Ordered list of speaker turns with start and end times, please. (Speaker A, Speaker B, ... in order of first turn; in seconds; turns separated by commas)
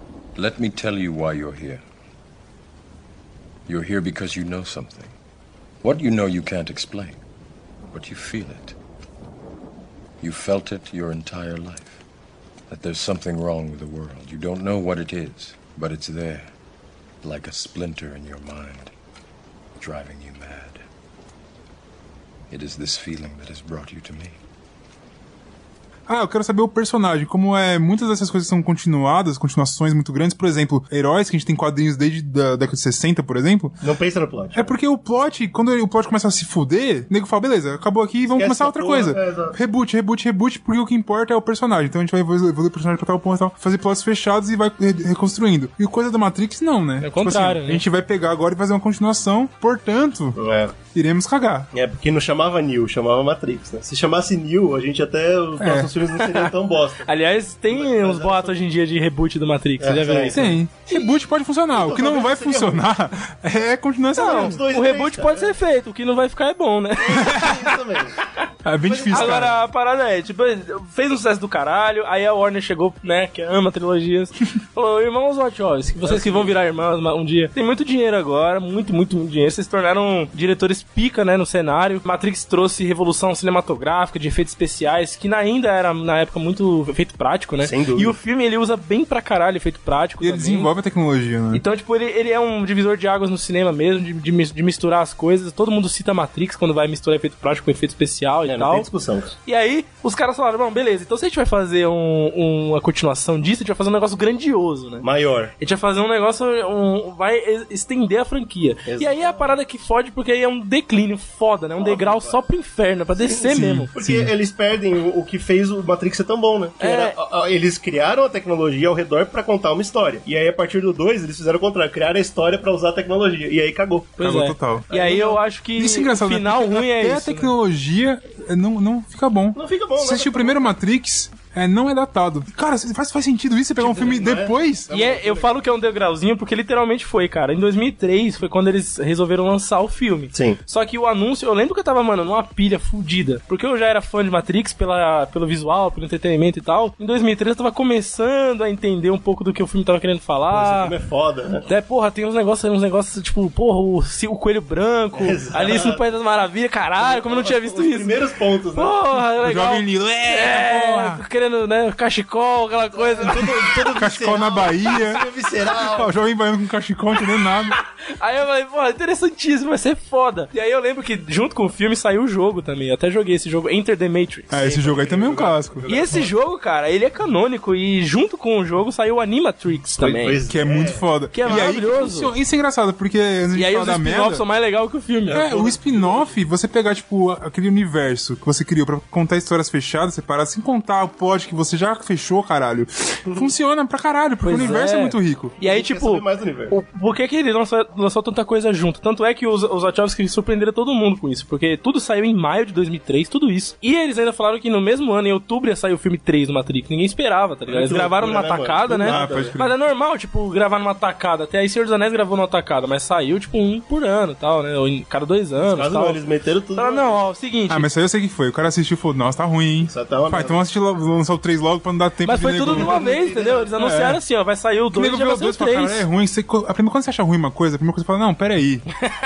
Speaker A: 0.4-1.8, Speaker A: 3.7-5.2, Speaker A: 5.8-7.2, Speaker A: 7.9-8.8, Speaker A: 10.2-12.0, Speaker A: 12.7-16.5, Speaker A: 17.2-18.9, Speaker A: 19.8-20.8, Speaker A: 22.5-24.4, Speaker B: 26.1-33.8, Speaker C: 33.8-34.7, Speaker B: 34.5-50.4, Speaker C: 38.3-39.6, Speaker D: 47.0-47.8, Speaker C: 50.4-50.7, Speaker B: 50.9-51.7, Speaker C: 51.7-57.1, Speaker B: 55.6-55.9, Speaker D: 56.2-56.5, Speaker D: 57.0-60.6, Speaker C: 57.7-58.5, Speaker C: 59.8-61.1, Speaker B: 60.3-64.6, Speaker C: 61.7-62.9, Speaker C: 64.2-65.5, Speaker D: 64.2-68.4, Speaker C: 67.0-68.2, Speaker B: 68.7-69.6, Speaker C: 68.8-69.5, Speaker D: 69.1-90.7, Speaker C: 76.0-76.5, Speaker C: 87.6-88.2, Speaker B: 90.2-91.6, Speaker D: 91.5-98.9, Speaker C: 98.5-99.3, Speaker D: 99.5-105.0, Speaker C: 105.0-105.5, Speaker D: 105.6-113.9, Speaker C: 108.9-109.6, Speaker C: 111.8-112.4, Speaker C: 113.2-124.2, Speaker B: 113.5-114.3, Speaker D: 116.8-117.2, Speaker D: 124.2-127.5, Speaker B: 124.2-124.9, Speaker C: 124.9-125.4, Speaker B: 125.8-134.9, Speaker C: 129.6-130.7, Speaker C: 133.8-135.6, Speaker D: 134.9-150.9, Speaker C: 140.3-140.6, Speaker C: 150.5-151.6, Speaker D: 151.7-158.2, Speaker C: 155.2-156.0, Speaker C: 157.0-159.0, Speaker D: 158.8-163.9, Speaker B: 159.3-161.2, Speaker C: 162.9-166.1, Speaker B: 163.9-167.8, Speaker D: 167.4-174.5, Speaker B: 174.5-175.9, Speaker C: 174.5-176.3, Speaker D: 175.9-180.4, Speaker C: 180.0-181.8, Speaker B: 180.5-184.4, Speaker D: 181.3-182.3, Speaker D: 183.5-185.5, Speaker C: 185.3-186.3, Speaker B: 185.3-195.6, Speaker C: 193.3-193.5, Speaker D: 194.4-216.2, Speaker C: 195.6-196.8, Speaker C: 207.7-209.6, Speaker B: 209.1-209.8, Speaker C: 215.6-217.2, Speaker D: 216.8-217.9, Speaker B: 217.7-223.1, Speaker C: 219.8-220.6, Speaker D: 222.2-226.1, Speaker C: 222.7-223.7, Speaker B: 223.8-224.2, Speaker B: 224.9-228.9